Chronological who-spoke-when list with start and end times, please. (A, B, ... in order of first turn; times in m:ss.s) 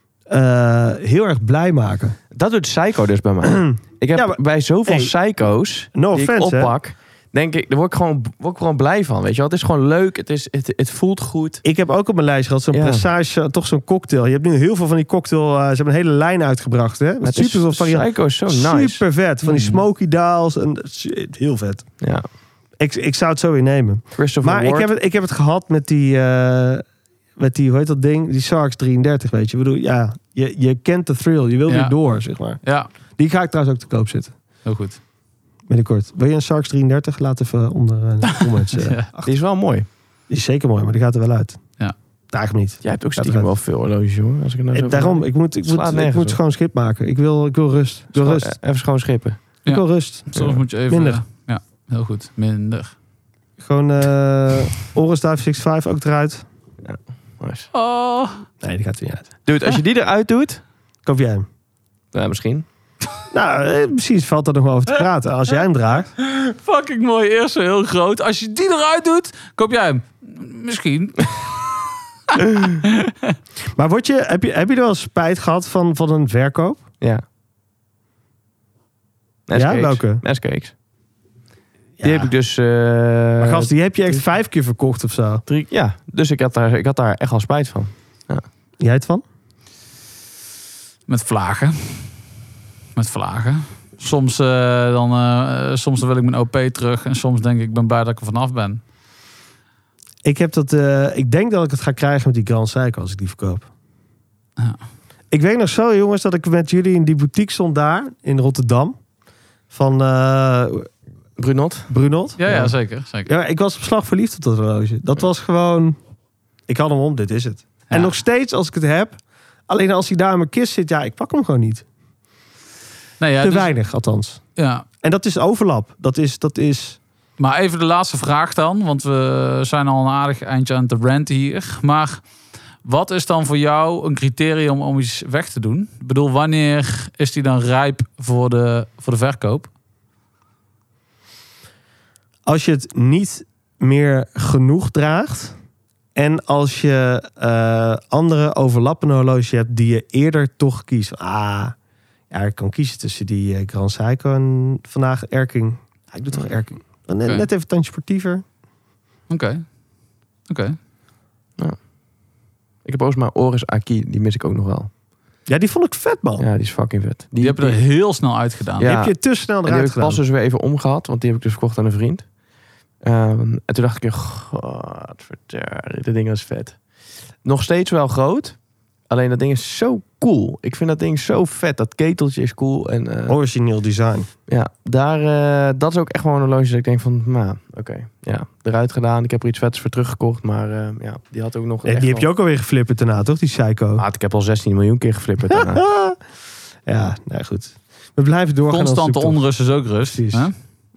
0:00.3-0:02.2 A
0:02.3-0:11.6 B
0:03.4-0:05.1 A
0:05.9-0:06.7 A
0:11.6-0:21.9 A
0:12.7-0:13.0 B
0:17.2-0:19.0 B
0:19.5-0:19.8 C
0:22.0-0:22.3 B
0:22.8-0:26.8 A
0:24.2-0:24.9 B
0:27.4-0:32.6 A
0:31.7-0:31.9 C
0:32.6-0:32.9 C
0:33.2-0:34.3 A
0:34.6-0:35.0 C
0:35.7-0:39.3 A
0:38.8-0:39.1 C
0:39.2-0:39.9 B
0:40.3-0:41.6 A
0:42.3-0:43.5 A
0:42.8-0:46.4 B
0:44.7-0:48.6 A
0:48.2-0:49.4 B
0:49.7-0:50.3 A
0:49.7-0:52.9 C
0:50.9-0:51.2 A
0:53.6-0:56.4 A
0:56.8-0:57.7 B
0:57.7-0:58.4 C
0:58.6-0:59.3 A
0:59.5-1:00.6 B
1:01.0-1:01.5 A
1:02.1-1:02.7 B
1:03.3-1:06.1 A
1:06.2-1:13.1 C
1:13.8-1:16.8 A
1:19.5-1:20.7 B
1:19.5-1:20.2 A
1:22.0-1:22.3 A
1:22.0-1:24.2 B
1:23.4-1:25.4 A
1:25.5-1:28.4 B
1:28.8-1:29.2 A
1:31.1-1:32.1 C
1:33.0-1:38.8 C
1:40.2-1:43.7 A
1:45.3-1:49.0 A
1:49.7-1:50.9 A
1:51.4-1:51.9 B
1:51.9-1:52.7 A
1:52.4-1:53.3 C
1:53.3-1:56.0 A
1:56.7-1:59.2 A
1:59.7-2:01.8 A
2:03.2-2:03.7 C
2:03.4-2:04.4 A
2:04.6-2:04.8 C
2:05.0-2:07.0 A
2:07.4-2:12.2 C
2:12.8-2:19.7 C
2:22.5-2:25.6 A
2:26.2-2:31.8 A
2:32.3-2:38.4 A
2:39.3-2:39.6 C
2:40.5-2:40.8 C
2:42.8-2:44.9 B
2:45.5-2:46.5 A
2:46.4-2:47.8 B
2:47.4-2:49.0 C
2:48.8-2:49.1 B
2:48.8-2:50.2 A
2:49.7-2:52.3 B
2:53.0-2:56.8 B
2:57.4-2:58.6 B
2:59.1-3:03.4 B
3:03.3-3:04.3 A
3:04.5-3:12.3 B
3:11.8-3:14.0 A
3:14.0-3:15.8 B
3:15.5-3:16.2 A
3:16.9-3:19.4 A
3:18.7-3:20.5 C
3:20.1-3:20.5 A